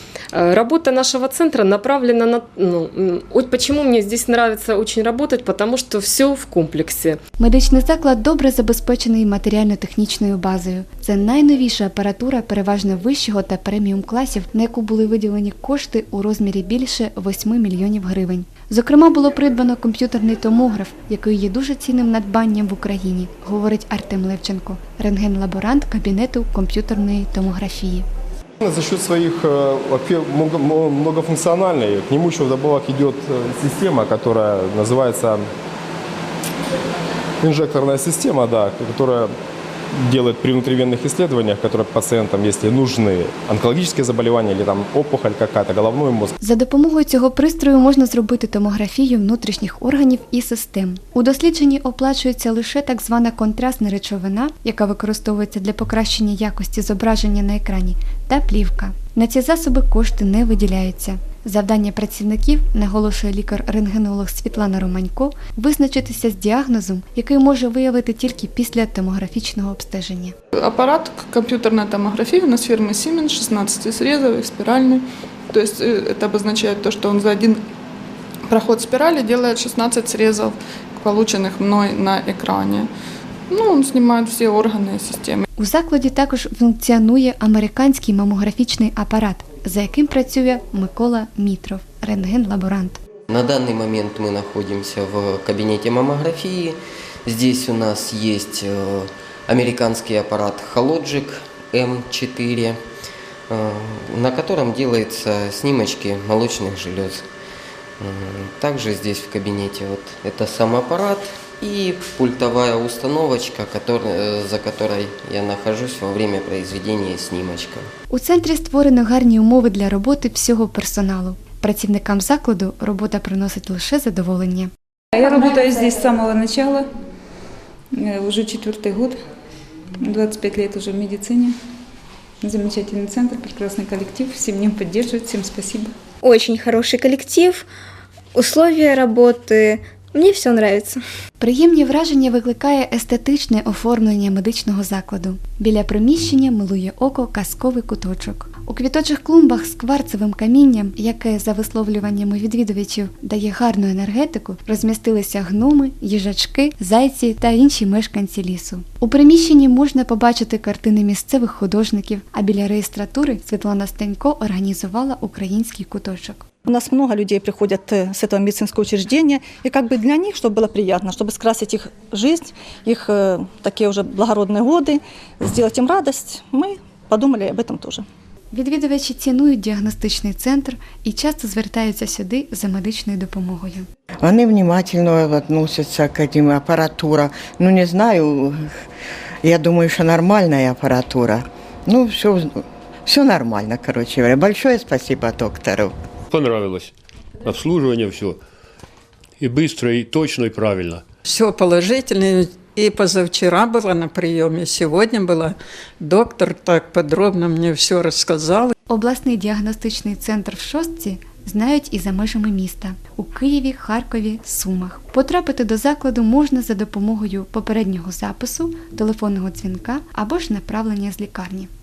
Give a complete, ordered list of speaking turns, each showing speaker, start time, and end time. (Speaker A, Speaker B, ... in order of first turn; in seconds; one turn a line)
Speaker A: 0.3-7.2
Speaker B: 7.4-28.1
Speaker C: 29.0-31.9
Speaker C: 32.5-35.3
Speaker C: 38.0-38.4
Speaker C: 40.5-44.1
Speaker C: 44.9-46.0
Speaker B: 46.4-70.3
Speaker D: 70.5-77.6
Speaker D: 78.5-82.9
Speaker D: 83.5-85.4
Speaker B: 85.6-93.0
Speaker E: 93.3-102.8
Speaker E: 103.5-107.3
Speaker E: 108.0-117.9
Speaker B: 118.1-124.7
Speaker F: 125.1-126.9
Speaker F: 127.9-129.2
Speaker F: 130.0-131.6
Speaker F: 132.4-135.9
Speaker G: 136.2-137.7
Speaker G: 138.3-141.0
Speaker B: 141.4-166.4
Speaker H: 166.6-178.0
Speaker B: 178.5-183.9
Speaker I: 184.2-188.7
Speaker I: 189.4-195.9
Speaker J: 196.3-196.9
Speaker J: 197.4-198.4
Speaker J: 199.4-201.0
Speaker K: 201.3-208.7
Speaker B: 208.9-221.7